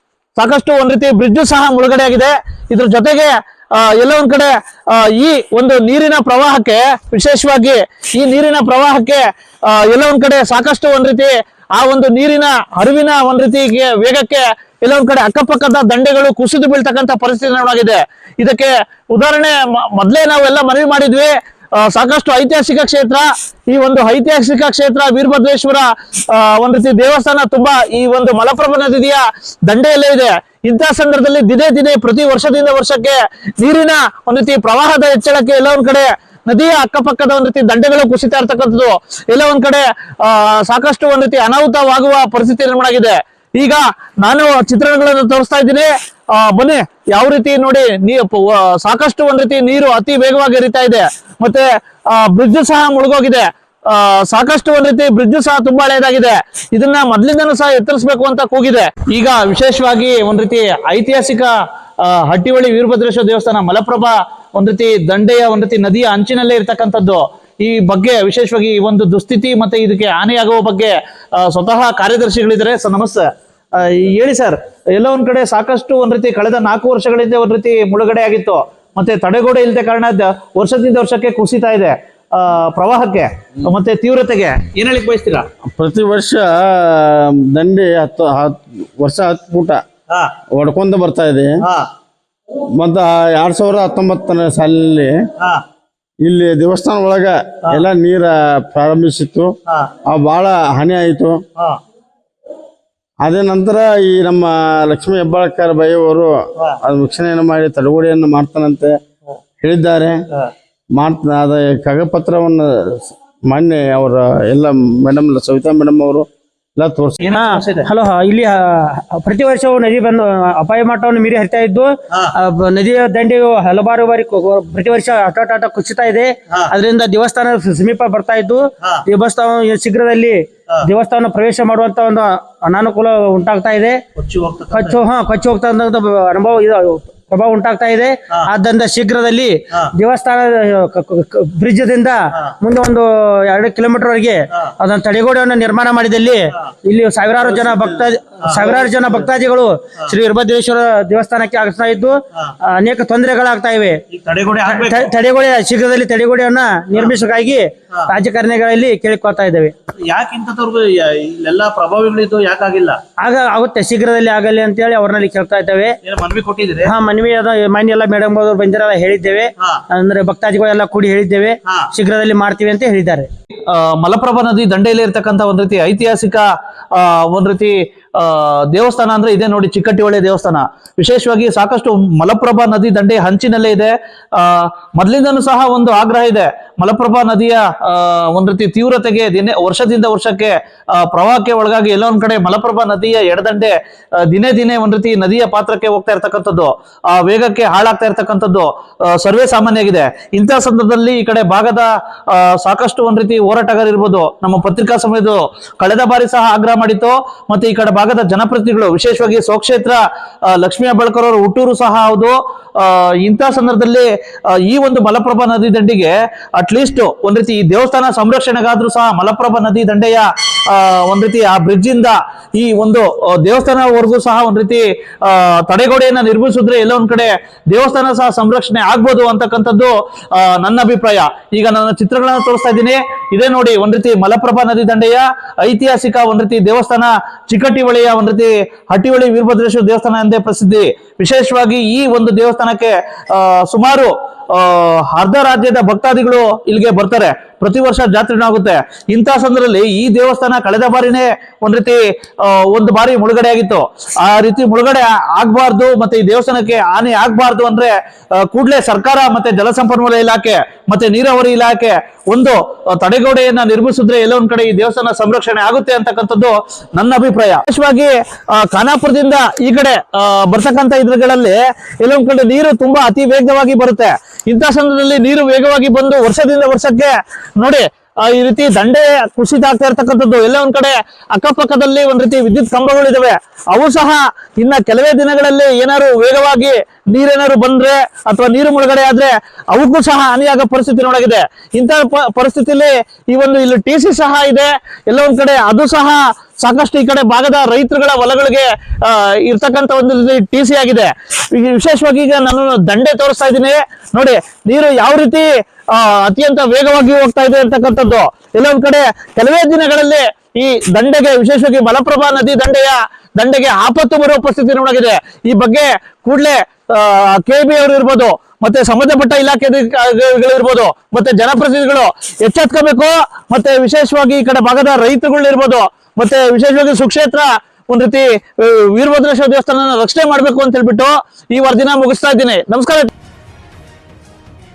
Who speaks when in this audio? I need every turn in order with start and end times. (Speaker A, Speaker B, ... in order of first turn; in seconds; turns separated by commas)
Speaker A: 0.3-85.5, Speaker B: 85.7-89.8, Speaker B: 90.5-91.5, Speaker A: 91.6-91.9, Speaker B: 92.8-95.2, Speaker B: 96.2-99.5, Speaker B: 100.1-101.4, Speaker B: 103.2-109.0, Speaker B: 109.6-110.2, Speaker B: 110.9-116.2, Speaker B: 116.8-117.2, Speaker A: 117.2-117.9, Speaker C: 117.3-134.0, Speaker A: 134.2-135.0, Speaker C: 134.7-154.0, Speaker A: 147.5-149.2, Speaker A: 154.1-155.1, Speaker C: 154.6-159.7, Speaker A: 160.0-163.0, Speaker C: 163.2-166.0, Speaker A: 166.0-166.9, Speaker C: 166.8-173.3, Speaker A: 173.7-193.7, Speaker A: 194.2-210.0, Speaker A: 210.5-214.1, Speaker A: 214.6-333.1